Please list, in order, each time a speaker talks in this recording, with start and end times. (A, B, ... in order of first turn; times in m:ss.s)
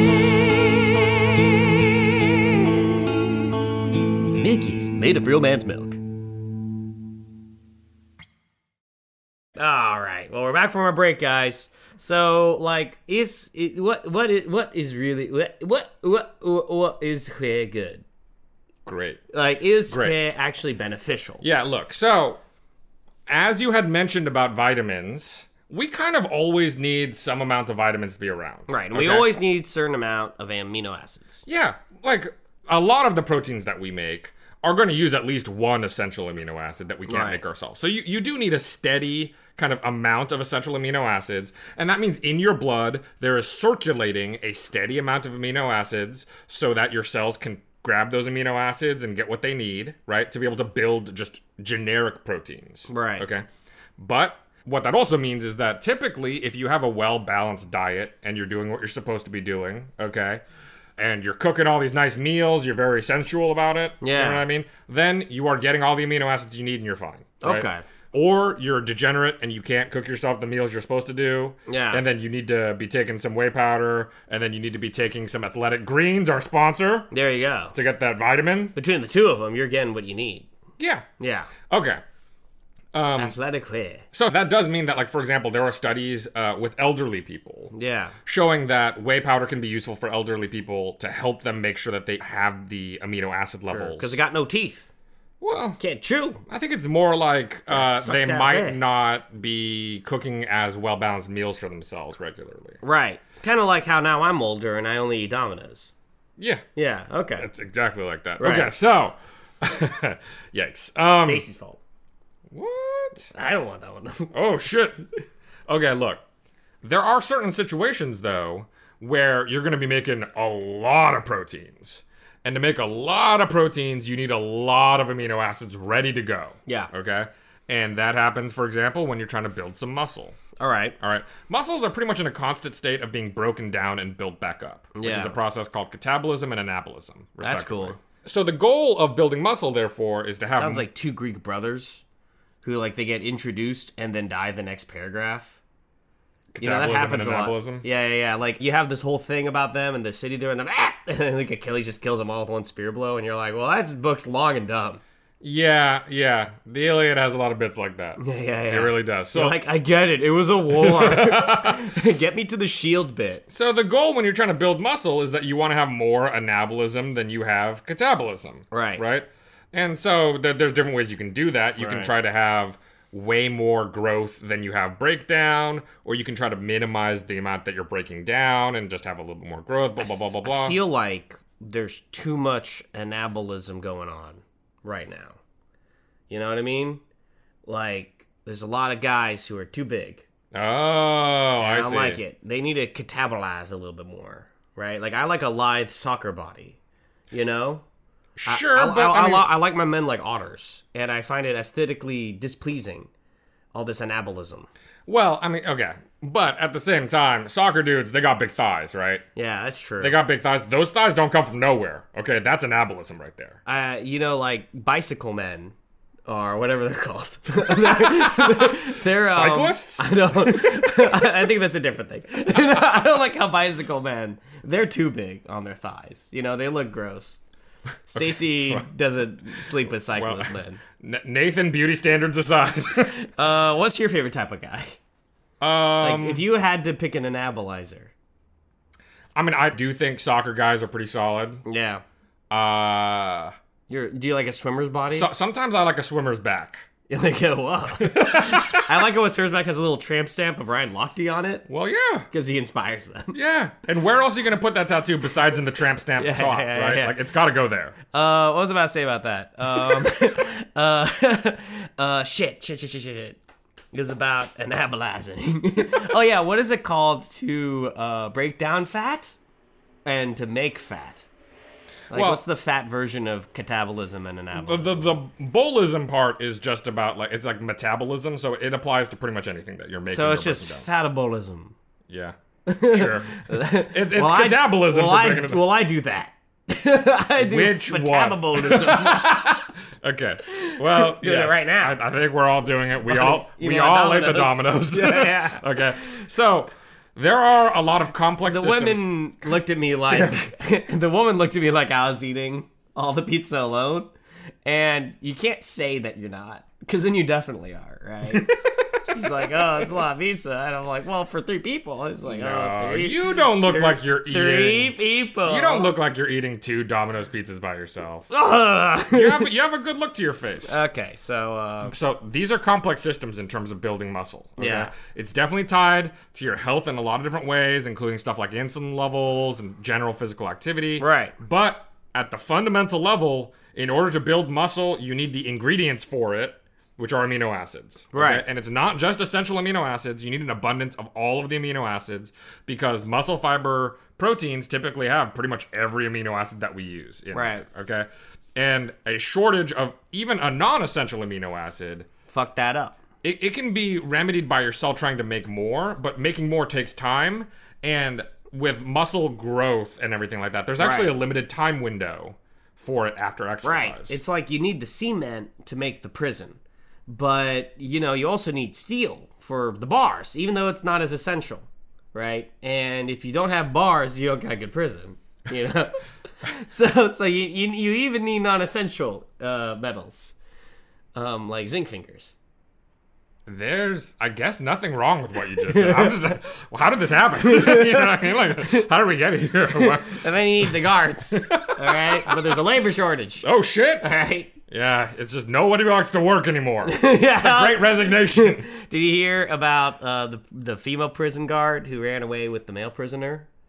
0:04.2-0:06.0 A
0:09.6-0:18.0 A
0:18.8-0:19.2 B
0:19.3-0:21.4 A
0:19.9-0:20.2 B
0:21.4-0:22.4 B
0:23.3-0:29.3 B
0:28.7-0:31.4 A
0:31.5-0:53.4 B
0:37.1-0:37.4 A
0:52.9-0:53.2 A
0:54.0-1:00.4 B
1:01.0-1:17.1 B
1:04.0-1:04.4 A
1:07.4-1:07.8 A
1:11.7-1:12.0 A
1:17.1-1:17.7 A
1:17.7-1:18.7 B
1:18.7-1:20.5 A
1:20.8-1:21.1 B
1:21.2-1:21.5 A
1:21.6-1:22.0 B
1:22.9-1:23.4 B
1:23.2-1:24.0 A
1:24.1-1:27.7 B
1:27.7-1:28.1 A
1:28.2-1:34.2 B
1:33.7-1:34.9 A
1:35.4-1:35.8 B
1:35.8-1:36.4 A
1:36.5-1:42.8 B
1:37.7-1:38.8 A
1:42.8-1:45.9 A
1:46.4-1:46.6 B
1:46.8-1:47.5 A
1:47.4-1:51.4 B
1:48.4-1:48.7 A
1:51.2-1:51.8 A
1:52.5-1:53.3 B
1:53.3-1:54.3 A
1:54.3-1:55.0 B
1:55.7-1:56.2 B
1:56.8-2:10.4 B
2:10.6-2:11.0 A
2:11.0-2:20.9 B
2:14.9-2:15.4 A
2:17.4-2:18.0 A
2:20.5-2:22.0 A
2:22.6-2:25.6 A
2:26.5-2:27.8 B
2:26.6-2:35.0 A
2:35.4-2:39.6 B
2:38.2-2:43.4 A
2:40.7-2:41.8 B
2:43.5-3:00.8 B
2:48.7-2:49.0 A
2:51.8-2:52.1 A
3:00.4-3:05.4 A
3:06.3-3:07.0 A
3:07.6-3:10.2 A
3:10.5-3:12.2 B
3:11.6-3:16.8 A
3:17.3-3:17.8 A
3:18.4-3:19.5 B
3:18.4-3:23.1 A
3:23.7-3:24.7 A
3:25.0-3:29.2 B
3:29.4-3:30.2 A
3:30.0-3:33.6 B
3:33.6-3:35.7 A
3:36.3-3:47.4 A
3:37.7-3:41.2 B
3:48.1-3:50.8 A
3:48.1-3:48.9 B
3:50.1-3:53.2 B
3:53.2-3:55.0 A
3:55.6-3:56.4 B
3:56.0-3:58.1 A
3:59.3-4:01.6 B
4:01.6-4:02.0 A
4:02.5-4:03.5 B
4:03.9-4:05.3 A
4:05.1-4:06.9 B
4:07.1-4:11.6 A
4:08.0-4:08.9 B
4:11.7-4:12.3 B
4:12.3-4:13.4 A
4:13.3-4:18.0 B
4:16.2-4:17.2 A
4:18.1-4:23.4 A
4:23.9-4:29.4 A
4:30.0-4:31.3 A
4:32.1-4:32.4 B
4:32.1-4:35.1 A
4:34.5-4:40.9 B
4:40.1-4:41.7 A
4:42.1-4:45.6 B
4:42.7-4:49.6 A
4:47.4-4:59.1 B
4:50.5-4:52.0 A
4:53.0-4:55.8 A
4:58.4-5:04.1 A
5:00.1-5:00.4 B
5:04.6-5:15.9 A
5:08.3-5:10.0 B
5:12.2-5:18.3 B
5:18.3-5:19.5 A
5:19.1-5:20.8 B
5:20.7-5:21.9 A
5:21.9-5:52.1 B
5:24.6-5:24.9 A
5:31.0-5:31.4 A
5:38.1-5:38.4 A
5:47.3-5:47.6 A
5:52.3-5:53.0 A
5:53.2-6:04.2 B
6:00.8-6:01.1 A
6:03.6-6:20.3 A
6:21.1-6:22.3 A
6:23.4-6:30.7 B
6:25.7-6:26.2 A
6:27.4-6:28.8 A
6:29.7-6:33.4 A
6:31.3-6:32.6 B
6:33.4-6:34.1 B
6:34.0-6:34.5 A
6:34.7-6:38.7 B
6:36.8-6:43.5 A